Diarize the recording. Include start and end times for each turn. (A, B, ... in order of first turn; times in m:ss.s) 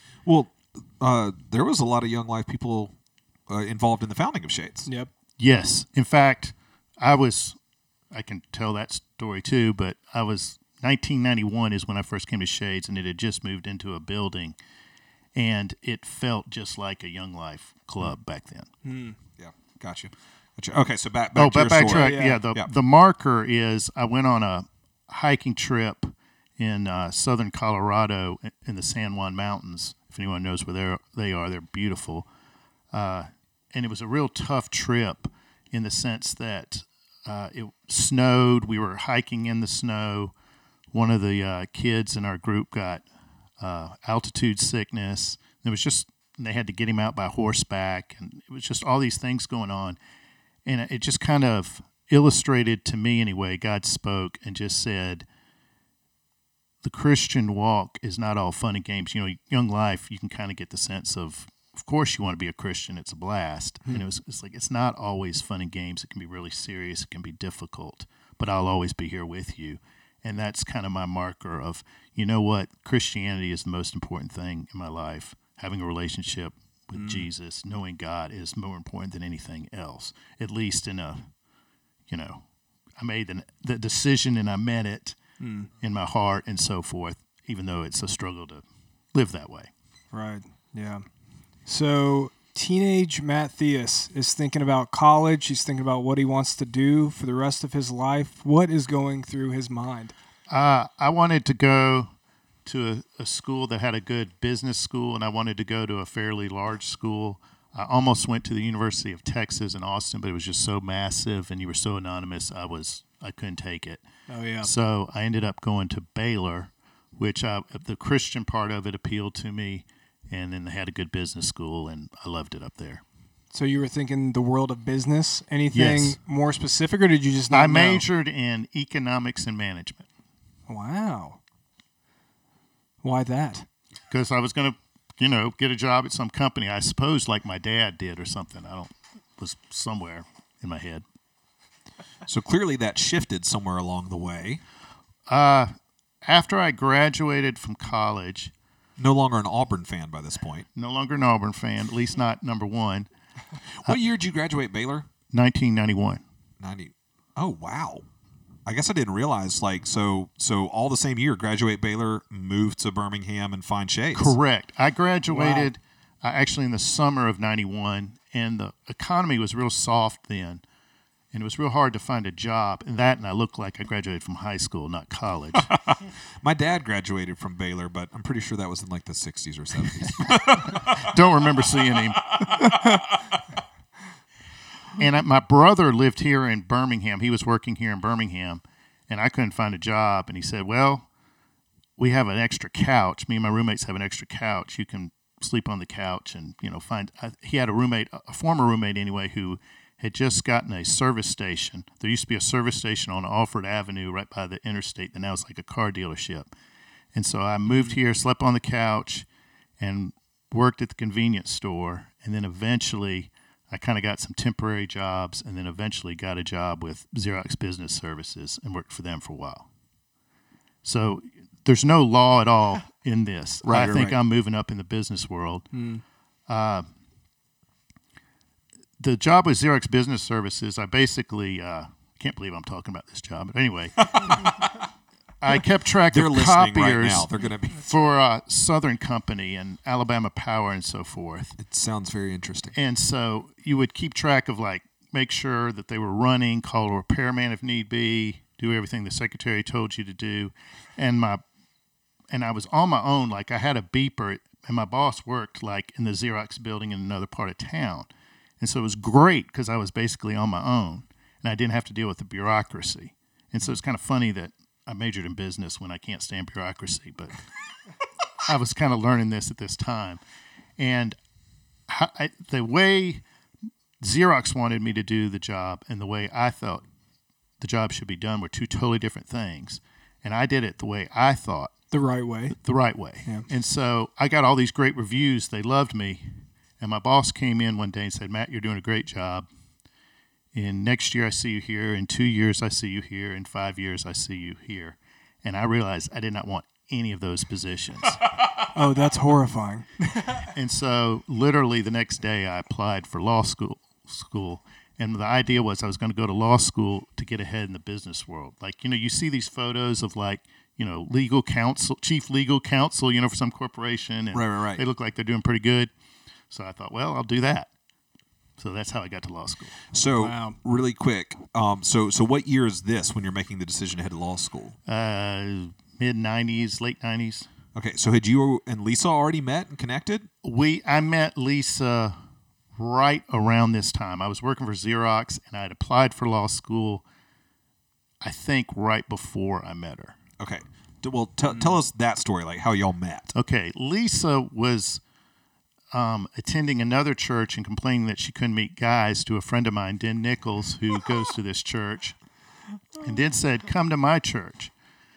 0:00.2-0:02.9 A
0:03.5-0:04.9 A
0:05.4-0:07.6 B
0:08.1-0:14.6 B
0:15.4-0:18.7 B
0:18.8-0:19.1 C
0:19.4-0:22.7 A
0:21.4-0:32.3 B
0:21.8-0:22.4 C
0:32.9-0:40.3 B
0:40.9-0:43.1 B
0:43.6-0:50.0 B
0:50.6-0:55.3 B
0:56.8-1:21.2 B
1:17.0-1:17.3 C
1:22.1-1:22.4 B
1:23.0-1:25.2 B
1:25.4-1:25.7 C
1:25.8-1:29.7 B
1:30.1-1:31.0 C
1:31.6-1:40.1 C
1:40.5-1:42.1 B
1:42.6-1:54.0 B
1:54.3-1:54.7 C
1:54.6-2:03.0 B
2:03.5-2:08.0 C
2:05.7-2:06.2 B
2:07.5-2:10.1 B
2:10.7-2:11.4 C
2:13.0-2:13.6 C
2:14.1-2:21.0 B
2:22.3-2:24.6 A
2:25.3-2:25.7 B
2:26.2-2:28.5 B
2:29.0-2:30.6 A
2:30.8-2:33.1 B
2:33.8-2:35.1 A
2:35.3-2:36.2 B
2:36.6-2:38.1 A
2:38.6-2:44.4 A
2:44.1-2:50.6 B
2:45.3-2:45.7 C
2:51.3-2:55.7 B
2:55.6-3:01.1 A
3:00.6-3:02.7 B
3:02.2-3:03.4 A
3:05.0-3:11.1 B
3:12.0-3:26.5 B
3:27.1-3:29.3 B
3:27.6-3:28.0 C
3:29.8-3:39.6 B
3:40.8-3:45.7 B
3:43.6-3:44.2 A
3:45.7-3:46.0 C
3:46.5-3:46.9 B
3:49.0-3:54.6 B
3:54.1-3:54.7 A
3:55.4-3:57.3 B
3:56.1-3:57.9 A
3:57.8-4:01.6 B
4:01.6-4:02.8 A
4:02.8-4:11.4 B
4:12.3-4:18.1 B
4:18.6-4:27.3 B
4:28.4-4:30.2 B
4:30.8-4:31.2 B
4:31.9-4:33.2 B
4:34.0-4:36.8 B
4:37.6-4:41.7 B
4:41.9-4:42.6 C
4:42.6-4:46.3 B
4:46.8-4:49.5 B
4:50.5-4:58.2 B
4:58.7-5:00.5 C
5:00.5-5:15.9 B
5:14.3-5:14.8 A
5:16.5-5:17.7 B
5:18.6-5:19.8 B
5:19.9-5:24.8 A
5:20.2-5:20.6 C
5:24.9-5:27.5 B
5:27.8-5:30.3 A
5:30.4-5:32.2 B
5:32.8-5:37.0 B
5:38.2-5:40.2 B
5:40.4-5:43.3 A
5:41.5-5:41.8 C
5:43.3-5:45.0 B
5:45.9-5:52.2 B
5:53.0-5:54.7 B